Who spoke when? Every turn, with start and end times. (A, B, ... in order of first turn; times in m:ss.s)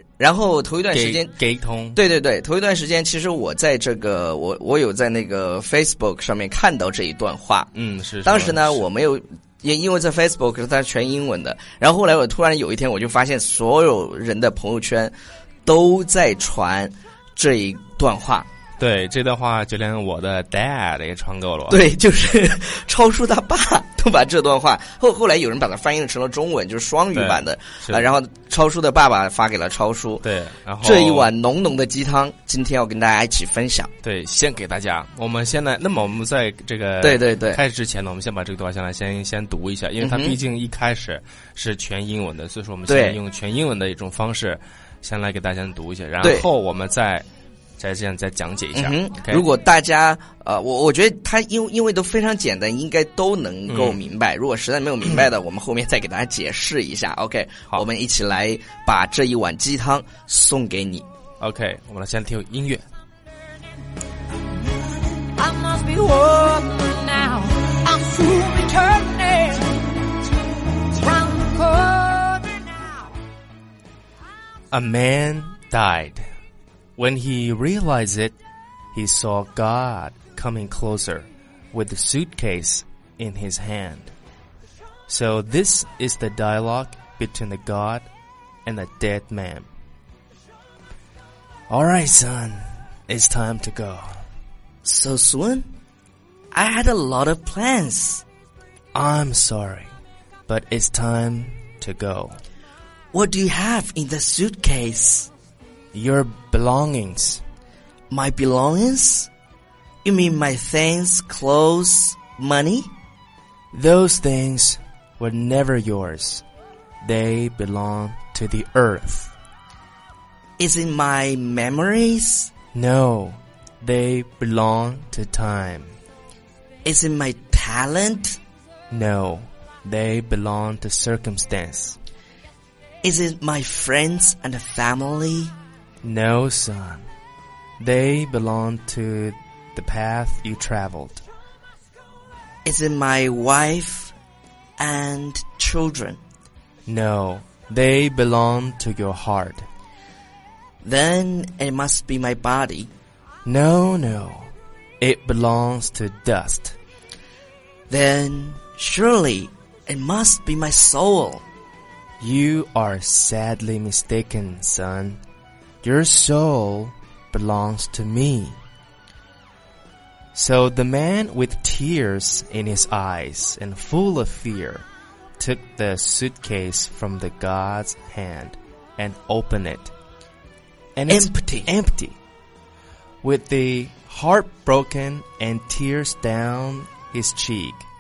0:00.2-0:01.3 A
0:00.9-0:02.0 B
0:02.0-0:07.7 A
0:07.7-0:08.8 B
0:08.2-0:15.1 A
0:15.7-0:18.5 A
0:18.8-0:21.8 B
0:21.7-0:30.3 A
0:27.1-0:28.1 B
0:30.2-0:31.3 B
0:30.8-0:33.9 A
0:34.0-0:47.3 B
0:37.0-0:37.6 A
0:40.0-0:40.4 A
0:42.9-0:43.2 A
0:46.2-0:46.5 A
0:47.8-0:49.4 B
0:48.8-1:01.1 A
0:53.7-0:54.0 B
1:01.4-1:02.9 B
1:05.3-1:09.7 C
1:10.9-1:12.6 C
1:14.7-1:16.3 B
1:17.0-1:18.4 B
1:18.9-1:24.1 B
1:25.1-1:28.1 B
1:28.7-1:29.7 B
1:31.7-1:34.2 B
1:34.8-1:35.7 A
1:36.5-1:38.2 A
1:38.9-1:39.9 B
1:40.5-1:42.4 B
1:43.1-1:45.3 A
1:45.9-1:47.4 B
1:48.1-1:49.3 A
1:50.0-1:52.9 A
1:53.7-1:56.4 B
1:57.0-1:59.3 B
2:00.6-2:02.5 A
2:02.7-2:06.0 B
2:06.8-2:08.4 A
2:08.9-2:12.0 B
2:13.0-2:15.5 A
2:16.0-2:17.1 B
2:17.8-2:21.2 B
2:22.6-2:24.2 A
2:24.8-2:26.2 A
2:26.9-2:29.7 B
2:30.8-2:32.9 A
2:33.4-2:36.8 B
2:37.9-2:41.4 A
2:42.2-2:45.2 B
2:45.8-2:48.6 B
2:50.3-2:54.9 B
2:55.4-2:59.9 B
3:01.0-3:02.2 B
3:01.1-3:01.7 A
3:03.2-3:07.9 B